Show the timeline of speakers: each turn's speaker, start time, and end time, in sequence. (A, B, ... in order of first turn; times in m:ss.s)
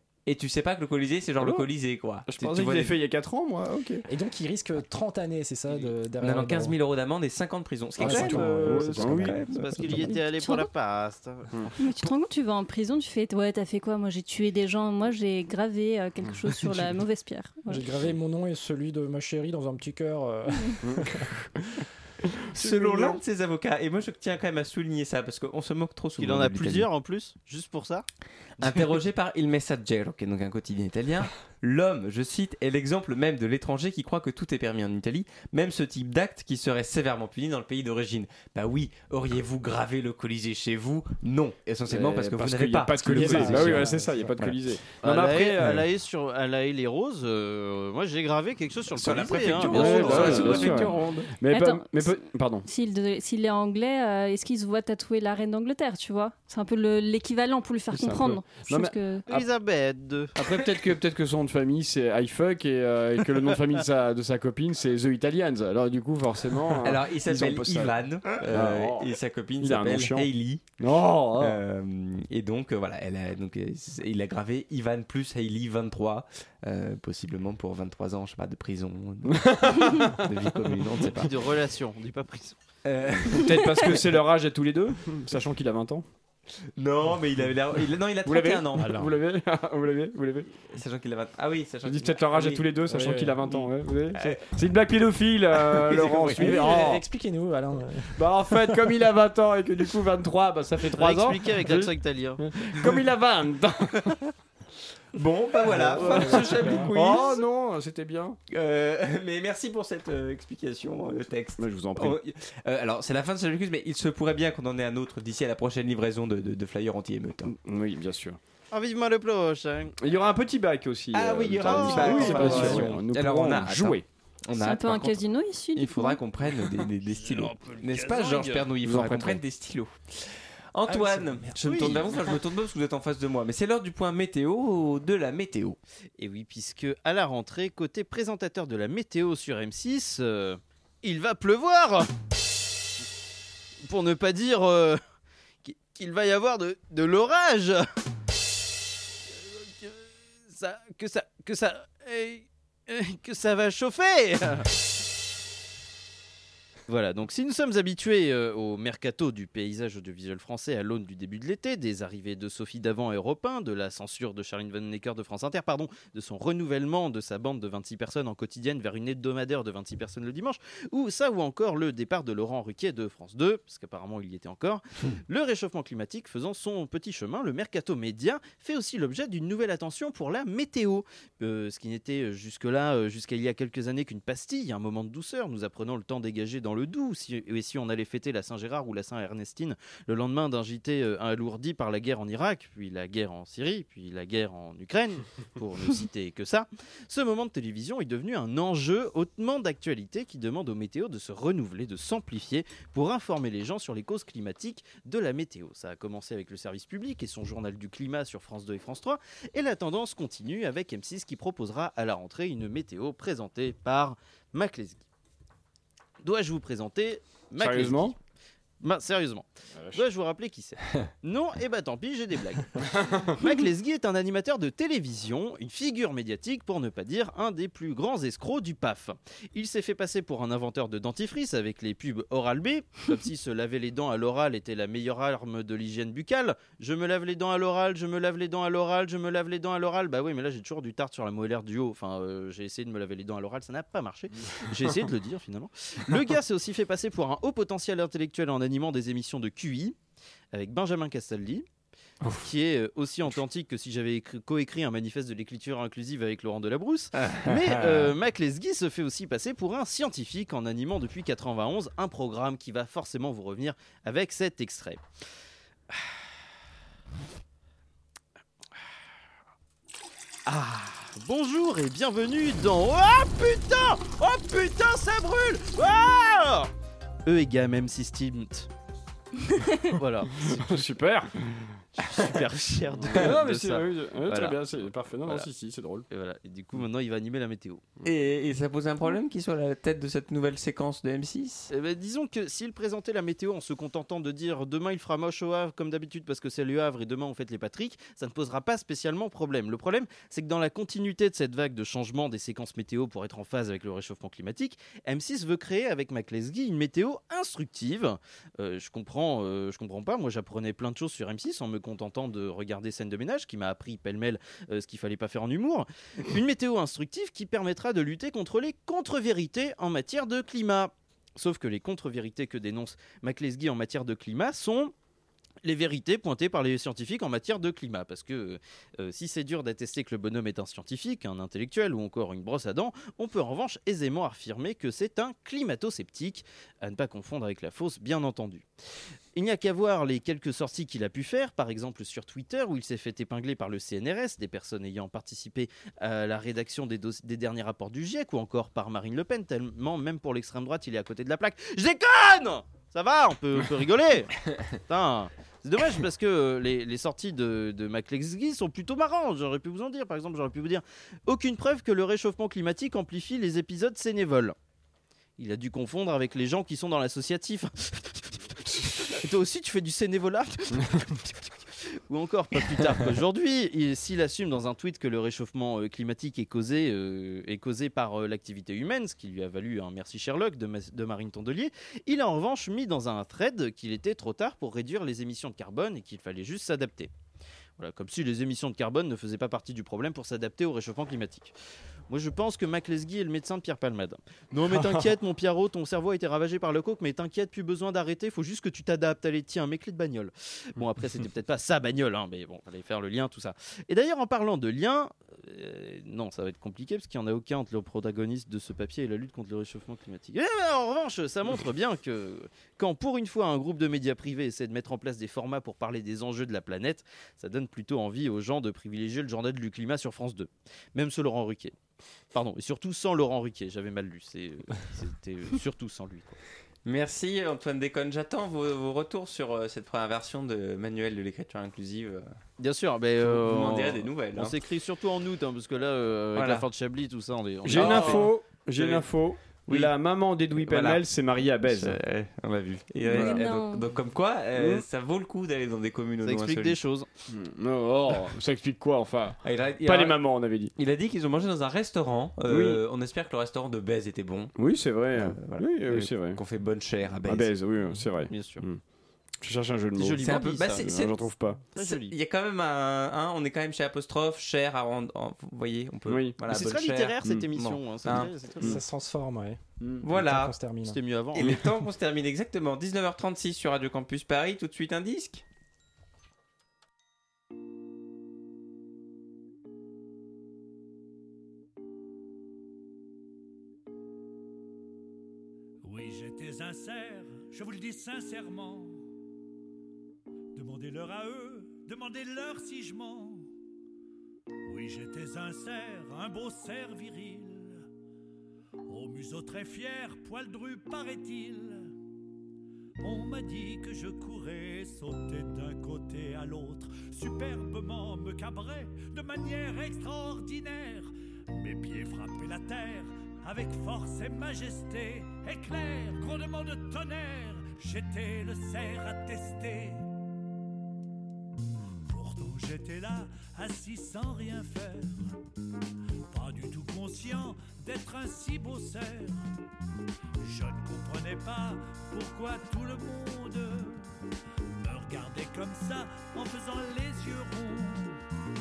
0:00.2-0:03.0 A
0:01.4-0:01.7 B
0:02.3-0:04.0 B
0:04.1-0:06.8 C
0:06.2-0:10.1 A
0:08.0-0:09.4 C
0:08.0-0:09.4 B
0:09.5-0:11.5 D
0:10.1-0:10.7 E
0:11.8-0:17.8 E
0:17.7-0:21.3 C
0:20.8-0:21.3 B
0:22.5-0:26.9 A
0:22.6-0:23.2 B
0:26.2-0:28.0 D
0:28.6-0:44.6 A
0:41.9-0:45.8 B
0:43.0-0:44.4 C
0:45.0-0:50.9 D
0:48.9-0:51.3 A
0:49.7-0:52.6 B
0:51.5-0:59.3 E
0:57.9-0:59.4 B
0:59.3-1:00.5 D
1:00.4-1:11.6 B
1:06.8-1:10.8 A
1:11.4-1:21.3 A
1:19.3-1:20.2 B
1:21.2-1:22.6 D
1:22.8-1:23.9 A
1:23.3-1:26.0 B
1:26.8-1:29.0 A
1:28.2-1:30.5 B
1:28.8-1:29.1 C
1:30.6-1:32.7 A
1:31.8-1:37.0 B
1:32.9-1:33.4 C
1:33.4-1:34.4 A
1:35.8-1:36.5 A
1:36.3-1:38.3 C
1:38.2-1:44.2 B
1:40.9-1:42.4 D
1:45.2-1:47.4 A
1:45.7-1:46.9 C
1:45.7-1:48.4 B
1:48.5-1:57.5 A
1:51.6-1:52.2 B
1:57.5-1:58.4 B
1:58.7-1:59.9 D
2:00.0-2:04.0 B
2:01.1-2:05.2 A
2:01.5-2:02.9 D
2:04.5-2:06.2 E
2:05.7-2:15.8 A
2:07.1-2:08.7 D
2:08.8-2:09.4 B
2:10.9-2:11.5 C
2:11.6-2:12.1 D
2:16.2-2:22.1 D
2:23.8-2:25.0 D
2:25.6-2:27.8 D
2:29.3-2:34.7 D
2:36.9-3:35.0 D
3:36.2-3:38.2 D
3:37.6-3:38.1 B
3:38.8-3:42.8 D
3:39.8-3:40.0 B
3:43.4-4:10.0 D
4:10.5-4:11.6 D
4:12.4-4:25.0 D
4:17.2-4:18.1 A
4:30.4-4:36.7 D
4:37.2-4:38.7 D
4:39.9-4:40.8 D
4:40.3-4:41.6 B
4:42.0-4:44.6 D
4:43.0-4:46.0 B
4:46.1-4:47.8 D
4:48.0-4:51.7 A
4:51.7-5:24.9 D
5:25.6-5:38.7 D
5:39.3-6:04.6 D
6:05.4-6:27.1 D
6:27.8-6:31.5 D
6:32.1-7:01.8 D
6:34.7-6:35.0 B
7:02.3-7:06.4 D
7:06.8-7:12.3 A
7:12.6-7:18.4 D
7:13.2-7:14.6 A
7:16.3-7:16.6 A
7:17.6-7:22.0 B
7:17.7-7:19.1 A
7:19.7-7:19.9 A
7:20.6-7:21.0 A
7:21.6-7:26.8 A
7:23.0-7:23.8 E
7:23.1-7:23.4 B
7:24.5-7:24.8 B
7:26.2-7:27.1 D
7:27.3-7:30.7 B
7:29.4-7:30.2 A
7:30.7-7:34.5 A
7:32.5-7:32.8 B
7:34.5-7:36.4 B
7:35.1-7:37.5 A
7:37.2-7:38.8 B
7:38.3-7:38.6 D
7:39.4-7:41.6 B
7:39.9-7:40.9 D
7:40.2-7:48.3 A
7:41.7-7:42.1 D
7:46.1-7:46.4 B
7:46.4-7:48.8 D
7:48.1-7:48.8 B
7:48.6-7:51.0 C
7:50.0-7:50.6 A
7:50.8-7:51.6 D
7:51.3-7:55.4 A
8:05.8-8:09.0 F
8:10.5-8:13.5 F
8:14.6-8:17.8 F
8:18.9-8:21.9 F
8:23.0-8:40.0 F
8:42.0-8:45.4 F
8:46.3-8:49.5 F
8:50.4-8:54.1 F
8:54.8-8:58.2 F